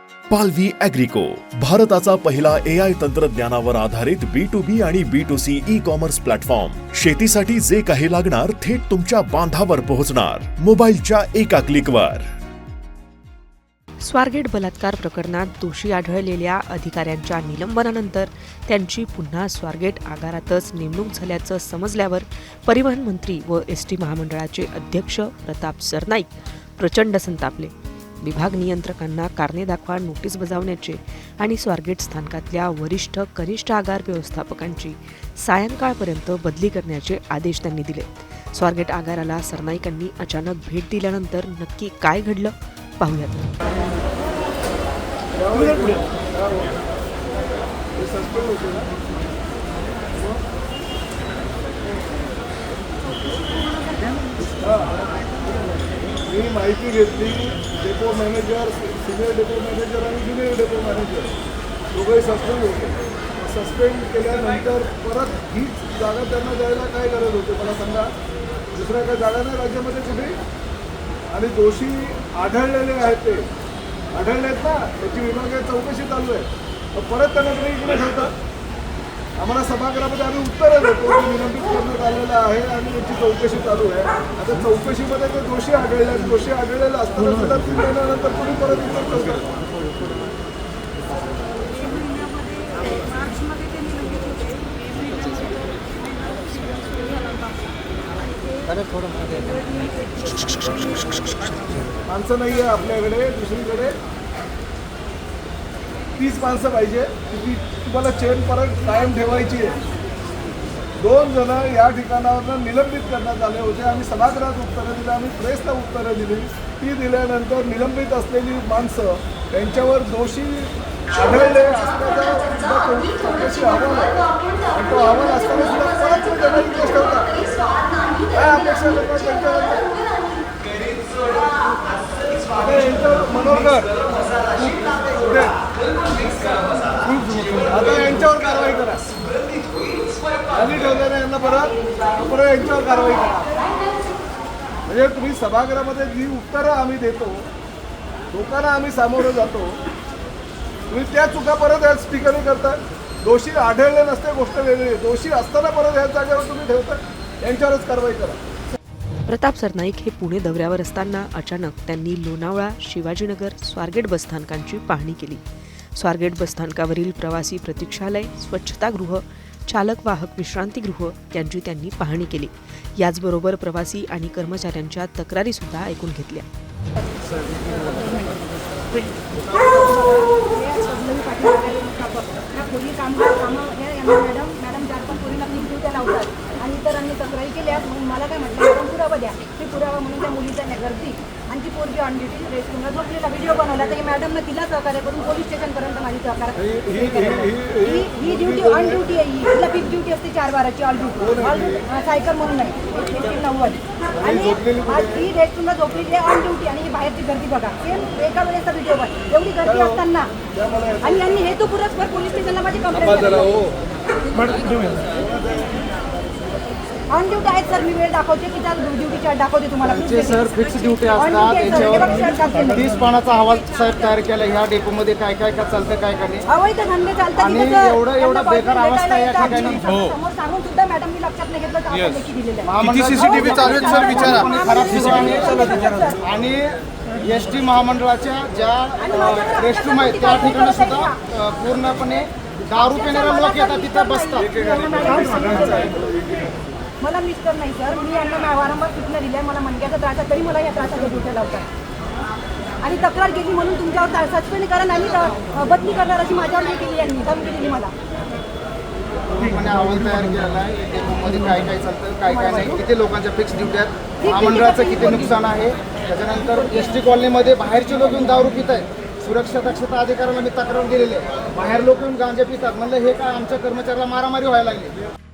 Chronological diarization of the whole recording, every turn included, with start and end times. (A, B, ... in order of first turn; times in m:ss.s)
0:00.3-0:12.3 A
0:14.0-0:43.4 B
0:45.4-0:46.8 C
0:48.0-0:48.9 C
0:54.6-0:54.9 C
0:56.3-1:01.3 C
1:01.9-1:08.1 C
1:08.7-1:10.4 C
1:11.3-1:13.5 C
1:14.1-1:18.3 C
1:19.4-1:29.5 C
1:42.1-1:44.0 C
1:46.2-1:49.8 C
1:51.0-2:07.5 C
2:08.3-2:10.0 C
2:12.5-2:15.6 C
2:16.9-2:19.1 C
2:20.5-2:23.6 C
2:24.9-2:27.5 C
2:28.3-2:29.8 C
2:30.9-2:38.4 C
2:39.3-2:45.4 B
2:46.0-2:56.5 B
2:57.8-2:58.4 D
2:59.4-3:30.3 D
3:16.6-3:19.0 C
3:21.2-3:21.9 C
3:24.2-3:25.3 C
3:29.6-3:30.0 C
3:30.5-3:31.2 C
3:31.0-3:33.6 D
3:33.0-3:33.7 C
3:37.1-3:40.4 D
3:39.8-3:46.5 E
3:41.2-3:42.8 D
3:46.5-3:56.2 D
3:47.4-3:49.9 E
3:52.6-4:04.6 E
3:59.0-4:01.2 D
4:02.8-4:06.0 D
4:07.0-4:11.7 D
4:12.8-4:17.9 D
4:19.3-4:35.0 E
4:22.3-4:22.8 D
4:24.2-4:25.3 D